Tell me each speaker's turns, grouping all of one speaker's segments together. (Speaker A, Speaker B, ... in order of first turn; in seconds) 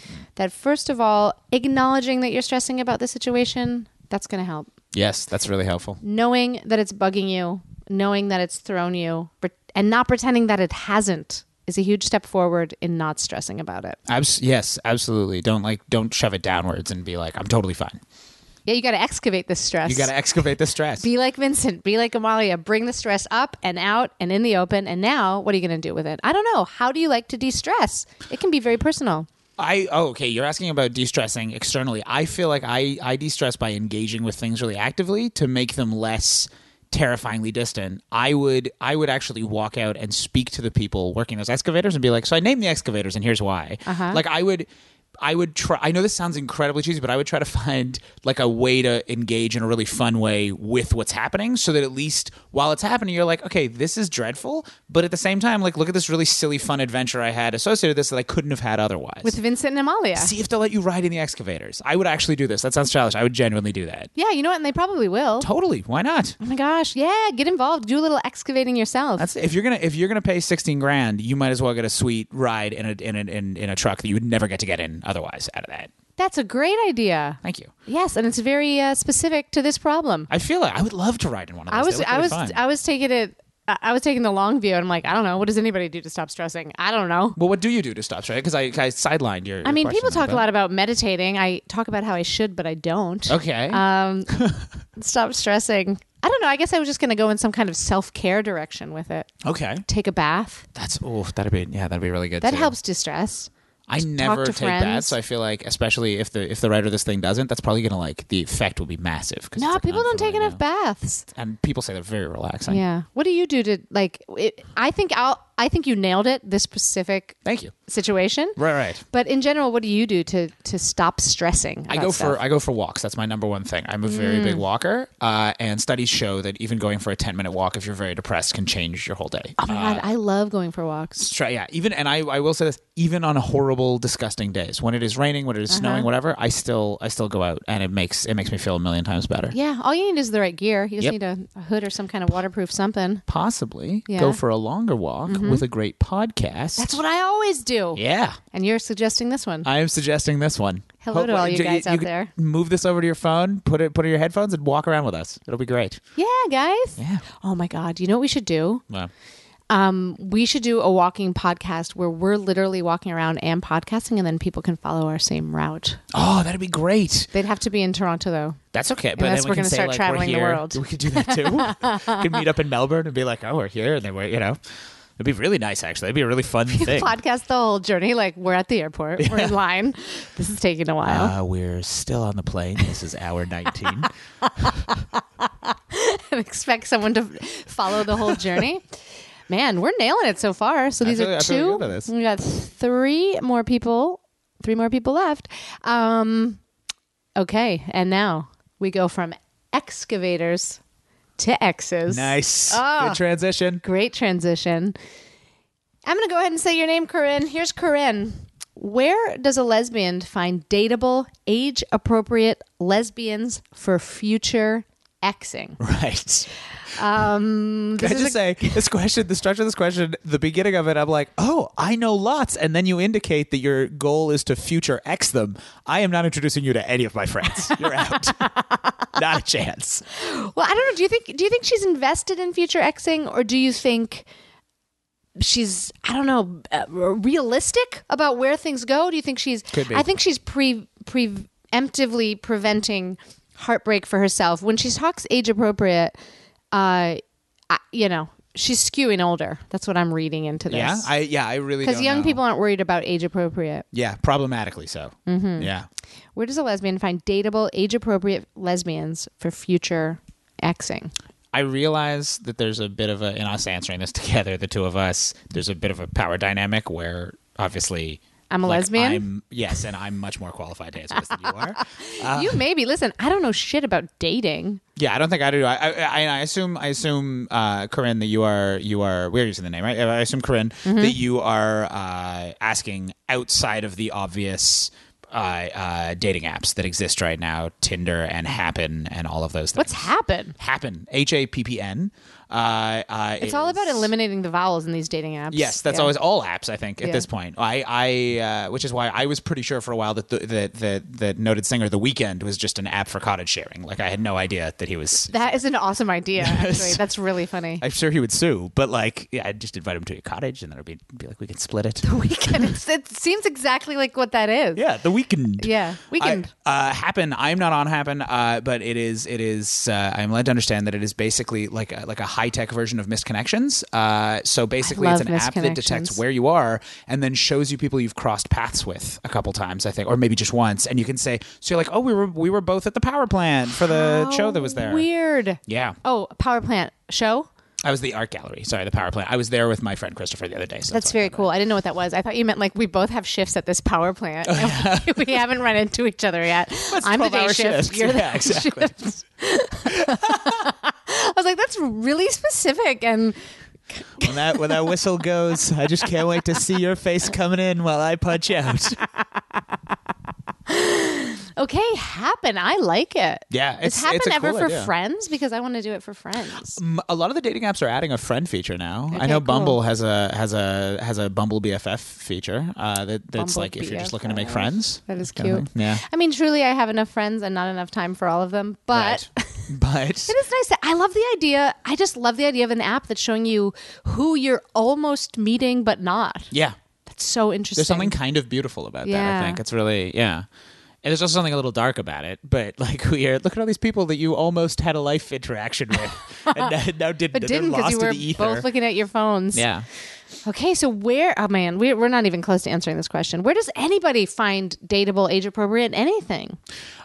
Speaker A: 0.4-4.7, 6.0-14.0, 18.7-20.1, 21.0-29.3, 43.9-44.2, 59.2-60.3, 64.2-65.5, 66.4-69.3, 76.2-80.3, 81.7-87.4, 89.6-94.3, 95.0-99.3, 99.9-100.7, 102.4-105.2, 109.5-111.3, 112.7-122.4, 124.0-124.6, 129.6-131.2, 135.7-136.1, 139.5-143.2, 144.1-144.4, 145.3-145.6, 146.8-148.0, 148.5-149.7, 151.0-152.3, 156.2-158.8, 159.7-166.0, 167.3-168.6, 169.2-172.2, 176.7-181.3, 184.6-188.9, 189.5-196.6, 197.4-200.8, 201.4-203.2, 203.8-205.0, 206.0-215.8, 216.9-218.8, 228.5-228.8, 230.1-234.2, 235.4-246.2, 246.7-251.1, 251.8-253.9, 255.3-255.7, 256.4-261.1, 268.5-269.2, 271.8-274.8, 280.9-281.2, 289.8-290.5, 293.4-296.1, 297.0-297.2, 305.3-307.8, 312.0-314.8, 315.6-316.5, 324.8-326.2, 333.8-337.5, 340.9-353.4, 353.9-354.9, 360.7-366.8, 369.1-369.8, 373.4-379.7, 380.3-386.5, 387.1-388.2, 389.0-389.6, 397.3-399.6, 400.4-406.6
Speaker B: 4.9-6.0, 14.1-18.0, 19.9-21.1, 29.6-44.7, 45.2-59.3, 60.2-64.1, 65.4-66.4, 69.2-75.9, 77.4-77.7, 80.3-82.6, 87.4-90.4, 93.3-94.7, 99.4-99.8, 100.8-102.7, 103.9-110.6, 111.3-112.8, 117.5-117.8, 118.5-119.0, 121.9-130.1, 131.2-139.5, 143.3-146.9, 147.9-148.4, 149.6-156.0, 157.0-157.2, 166.1-167.3, 168.7-174.6, 175.2-177.1, 179.2-179.6, 181.0-184.8, 188.0-188.6, 191.0-192.1, 202.1-203.8, 215.8-216.5, 218.0-228.5, 229.1-230.0, 239.7-240.1, 250.7-252.4, 253.9-255.9, 261.5-272.6, 275.0-294.1, 295.5-305.6, 306.4-307.0, 307.8-312.8, 314.8-335.1, 335.7-336.0, 337.8-341.5, 344.5-345.4, 346.9-349.1, 349.9-350.6, 354.2-359.0, 363.5-364.9, 366.7-376.0, 378.9-380.3, 386.5-386.8, 387.8-390.5, 391.0-398.7, 399.5-399.9